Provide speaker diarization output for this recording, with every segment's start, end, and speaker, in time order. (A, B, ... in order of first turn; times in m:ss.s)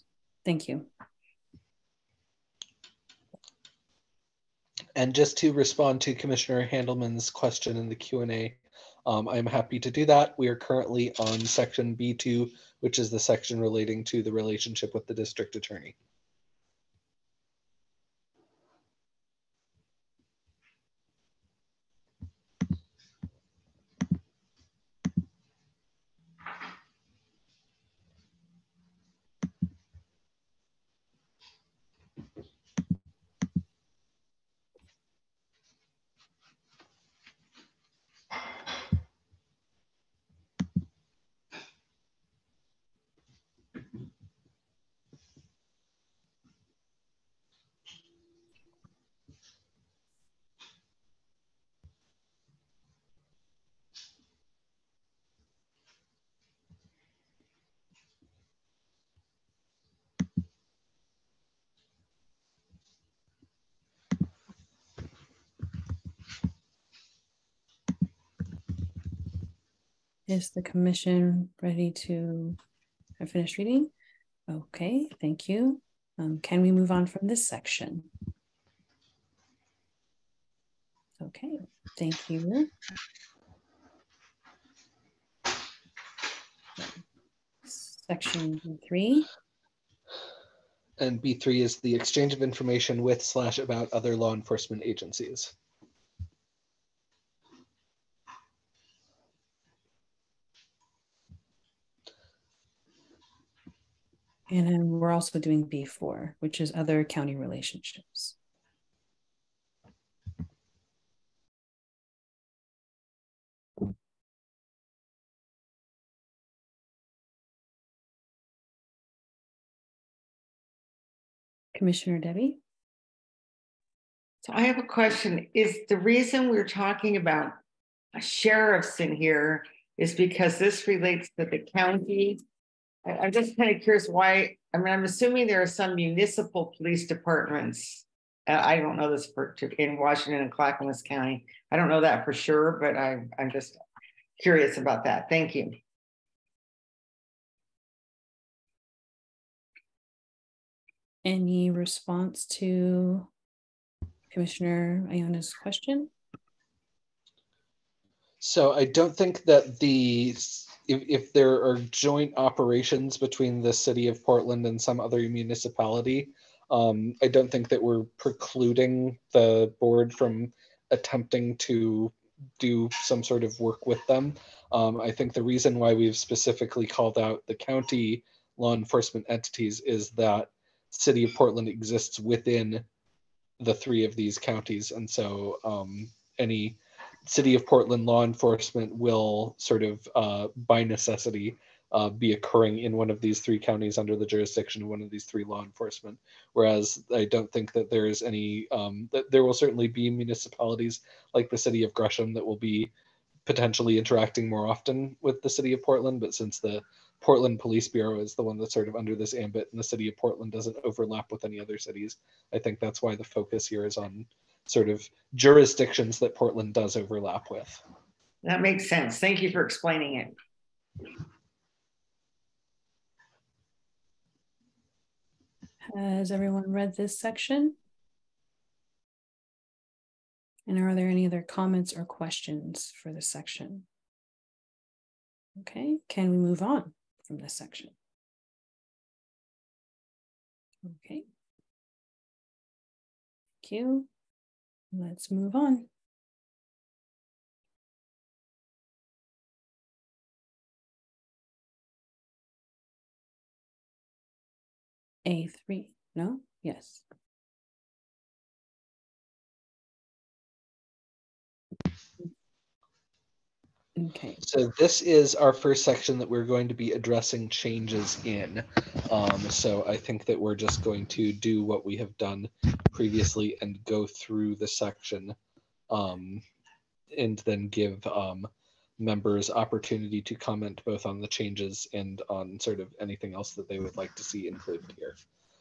0:00.4-0:00.9 A
0:05.0-0:15.9 B
1:10.3-1:12.6 A
1:13.2-1:13.9 A
1:14.5-1:18.1 A
1:21.2-1:22.7 A
1:27.6-1:29.3 A
1:31.0-1:35.5 B
1:44.5-1:48.3 A
2:01.7-2:02.6 A
2:04.4-2:07.5 C
2:08.2-2:12.4 C
2:13.0-2:23.8 C
2:24.4-2:25.8 C
2:31.2-2:33.3 A
2:34.3-2:36.1 A
2:38.4-3:02.8 B
3:03.6-3:22.9 B
3:23.4-3:37.8 B
3:38.4-3:40.3 C
3:45.8-3:47.8 A
3:50.7-3:53.8 A
3:55.6-3:57.9 A
4:00.8-4:01.2 A
4:03.6-4:04.1 A
4:04.9-4:05.9 A
4:15.2-4:17.0 A
4:24.0-4:24.4 A
4:24.4-4:35.4 B
4:35.9-4:36.4 B
4:37.1-4:45.2 B